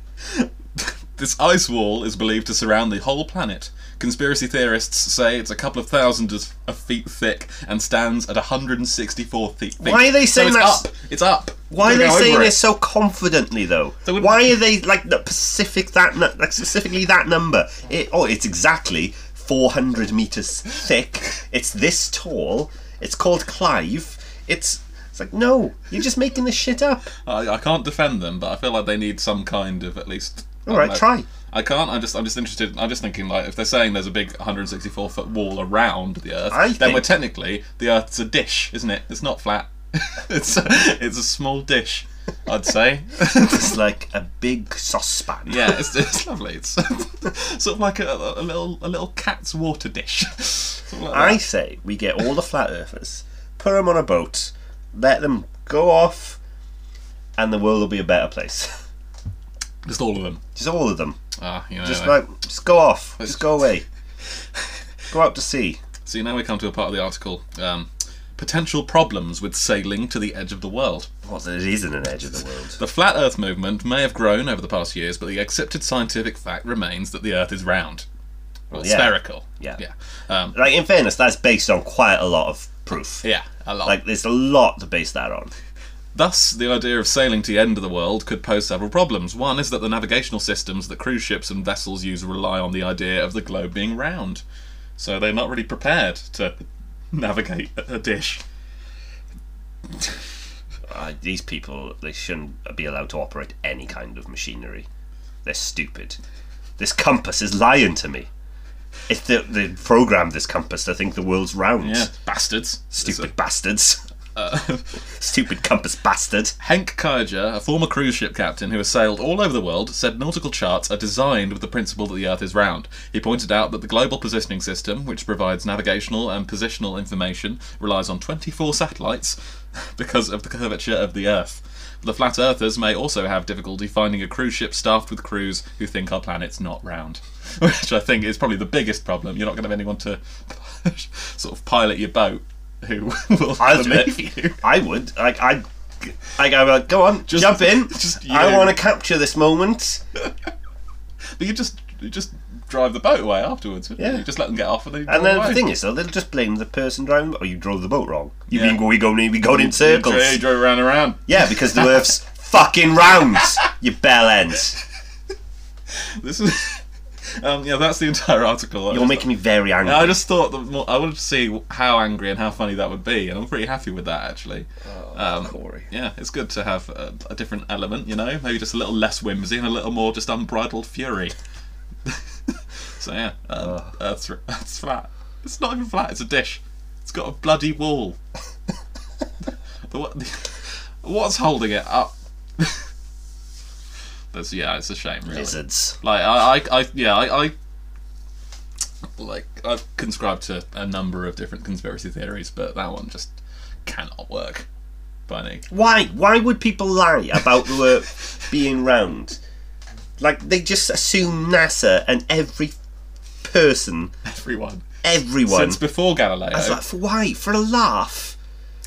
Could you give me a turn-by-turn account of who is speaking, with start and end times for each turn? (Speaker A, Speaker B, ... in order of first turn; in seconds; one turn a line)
Speaker A: 0.3-12.6
Speaker B: 9.8-10.9
Speaker B: 11.7-27.1
Speaker A: 14.1-14.6
Speaker A: 27.2-43.7
Speaker B: 30.7-31.3
Speaker B: 36.5-37.1
Speaker B: 43.4-45.8
Speaker A: 45.5-51.4
Speaker B: 51.1-56.4
Speaker B: 57.4-58.7
Speaker A: 59.9-60.4
Speaker B: 60.5-61.2
Speaker A: 61.4-62.2
Speaker B: 61.8-63.8
Speaker A: 63.2-63.5
Speaker B: 65.1-65.8
Speaker A: 66.1-71.1
Speaker B: 71.2-72.8
Speaker A: 72.8-78.1
Speaker A: 78.7-80.6
Speaker B: 78.7-79.8
Speaker B: 80.5-83.2
Speaker A: 83.2-84.0
Speaker B: 83.9-85.5
Speaker A: 86.1-94.4
Speaker A: 95.0-96.5
Speaker A: 97.1-98.4
Speaker B: 100.9-104.9
Speaker B: 105.5-106.2
Speaker B: 106.8-108.3
Speaker B: 109.1-112.1
Speaker A: 111.8-113.3
Speaker B: 112.9-114.0
Speaker A: 114.3-115.0
Speaker B: 115.2-116.6
Speaker A: 116.6-144.6
Speaker B: 143.6-150.0
Speaker A: 147.3-148.8
Speaker A: 151.4-155.7
Speaker B: 154.0-154.2
Speaker B: 155.1-160.4
Speaker A: 158.5-158.8
Speaker A: 159.5-161.8
Speaker B: 161.3-164.8
Speaker A: 165.9-166.8
Speaker A: 167.4-169.3
Speaker B: 168.9-170.2
Speaker A: 169.8-181.3
Speaker B: 174.8-175.9
Speaker A: 182.1-188.2
Speaker B: 183.6-183.9
Speaker A: 189.9-192.9
Speaker A: 194.3-197.5
Speaker B: 195.3-196.0
Speaker A: 199.2-203.3
Speaker A: 203.8-204.7
Speaker A: 205.3-205.7
Speaker B: 205.7-209.4
Speaker B: 210.2-212.8
Speaker B: 213.4-214.1
Speaker A: 214.3-214.8
Speaker B: 215.0-215.8
Speaker A: 215.5-216.8
Speaker B: 216.5-218.4